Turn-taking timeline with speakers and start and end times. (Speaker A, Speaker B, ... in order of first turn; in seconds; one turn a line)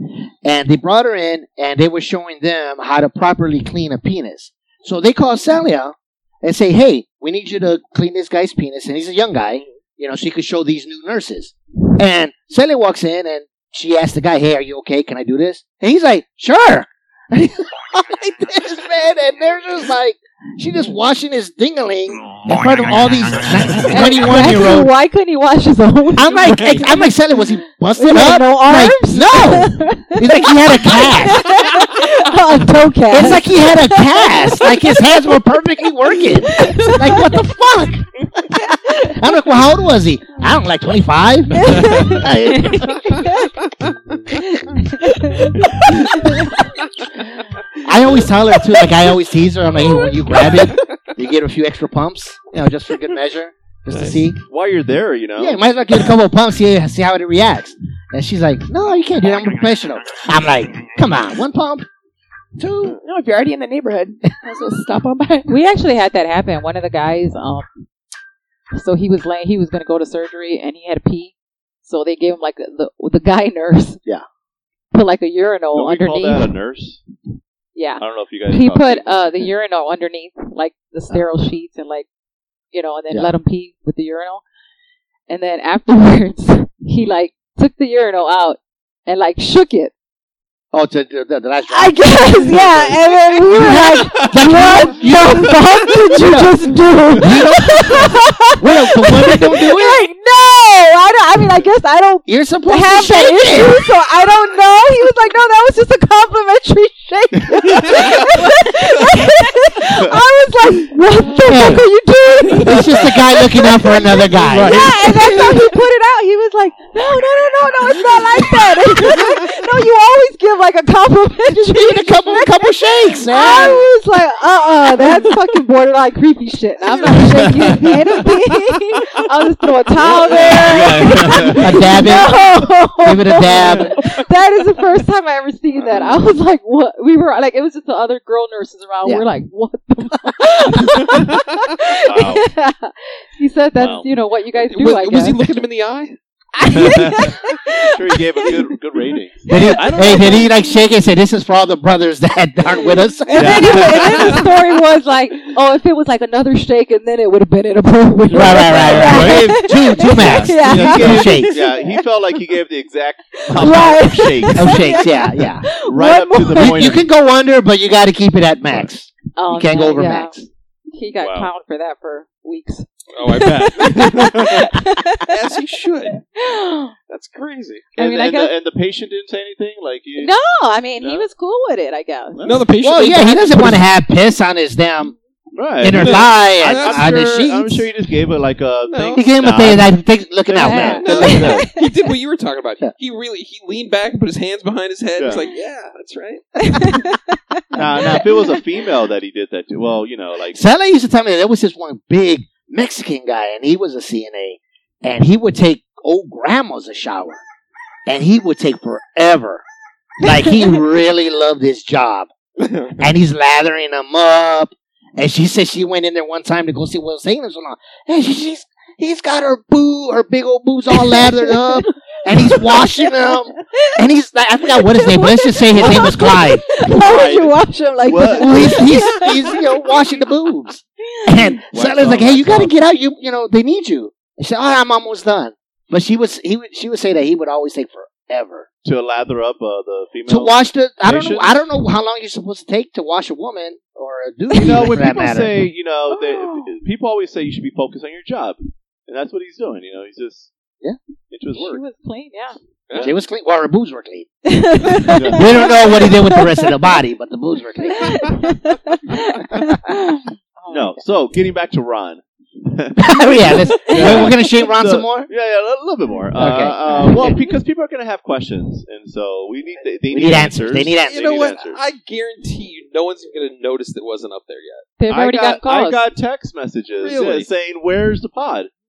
Speaker A: 0.4-24.9
Speaker B: 23.9-27.1
Speaker A: 26.1-31.6
Speaker B: 27.9-35.4
Speaker A: 33.1-38.1
Speaker B: 36.1-37.5
Speaker A: 39.0-43.2
Speaker B: 41.5-43.5
Speaker B: 44.5-46.7
Speaker A: 47.8-54.4
Speaker B: 49.9-50.1
Speaker C: 53.9-54.2
Speaker D: 54.5-55.6
Speaker A: 55.4-61.9
Speaker A: 62.6-63.0
Speaker E: 63.0-65.5
Speaker B: 65.5-67.7
Speaker B: 68.7-71.3
Speaker B: 71.8-74.0
Speaker B: 74.9-76.5
Speaker D: 75.7-77.0
Speaker B: 77.7-82.0
Speaker D: 78.0-79.5
Speaker B: 82.7-84.4
Speaker B: 85.3-89.9
Speaker A: 90.7-96.6
Speaker B: 91.7-145.5
Speaker A: 97.1-100.0
Speaker A: 102.2-103.9
Speaker D: 107.5-108.1
Speaker A: 111.4-111.8
Speaker D: 112.5-112.8
Speaker A: 112.6-115.8
Speaker D: 114.3-115.3
Speaker A: 121.6-123.9
Speaker D: 127.0-128.3
Speaker D: 129.9-132.2
Speaker A: 131.6-132.5
Speaker A: 133.0-134.0
Speaker D: 133.5-133.9
Speaker D: 135.8-136.1
Speaker D: 142.0-142.5
Speaker D: 143.8-144.1
Speaker C: 144.6-146.2
Speaker B: 146.6-148.8
Speaker D: 146.6-150.5
Speaker B: 149.5-150.6
Speaker A: 149.5-154.2
Speaker B: 152.7-162.1
Speaker D: 153.3-154.4
Speaker C: 154.1-154.4
Speaker D: 158.3-164.9
Speaker A: 158.3-161.6
Speaker B: 163.4-166.9
Speaker A: 164.5-165.6
Speaker D: 165.8-167.0
Speaker A: 166.5-170.5
Speaker B: 169.3-170.3
Speaker B: 170.9-175.4
Speaker C: 173.1-174.7
Speaker C: 175.2-176.2
Speaker B: 176.1-176.9
Speaker C: 177.1-177.9
Speaker B: 177.9-178.5
Speaker D: 178.0-180.3
Speaker B: 180.2-182.4
Speaker D: 181.0-181.3
Speaker D: 182.3-182.7
Speaker C: 182.4-183.8
Speaker A: 182.8-185.1
Speaker D: 185.5-191.7
Speaker A: 185.8-187.9
Speaker C: 186.0-187.1
Speaker C: 188.9-189.2
Speaker A: 189.1-191.4
Speaker B: 190.6-191.9
Speaker C: 191.0-197.0
Speaker D: 195.2-195.5
Speaker B: 196.6-198.6
Speaker D: 197.7-200.6
Speaker A: 200.5-207.4
Speaker A: 208.1-209.6
Speaker A: 210.2-212.3
Speaker C: 212.6-213.0
Speaker A: 213.0-226.6
Speaker B: 220.9-224.0
Speaker B: 224.7-230.0
Speaker D: 226.9-229.0
Speaker A: 228.3-238.7
Speaker B: 231.1-231.6
Speaker D: 231.7-232.7
Speaker D: 238.8-241.7
Speaker A: 240.3-245.6
Speaker B: 244.5-244.9
Speaker D: 244.6-250.5
Speaker B: 246.1-246.8
Speaker D: 251.3-251.8
Speaker B: 251.5-252.6
Speaker D: 252.9-253.2
Speaker A: 253.0-254.3
Speaker B: 254.4-257.0
Speaker D: 255.1-255.7
Speaker A: 255.3-258.4
Speaker B: 257.9-261.0
Speaker D: 260.7-271.8
Speaker A: 263.0-265.3
Speaker B: 263.9-264.3
Speaker A: 266.4-267.4
Speaker B: 266.9-267.3
Speaker A: 270.1-271.3
Speaker C: 271.1-274.9
Speaker B: 275.0-276.1
Speaker D: 275.1-278.7
Speaker C: 277.0-277.5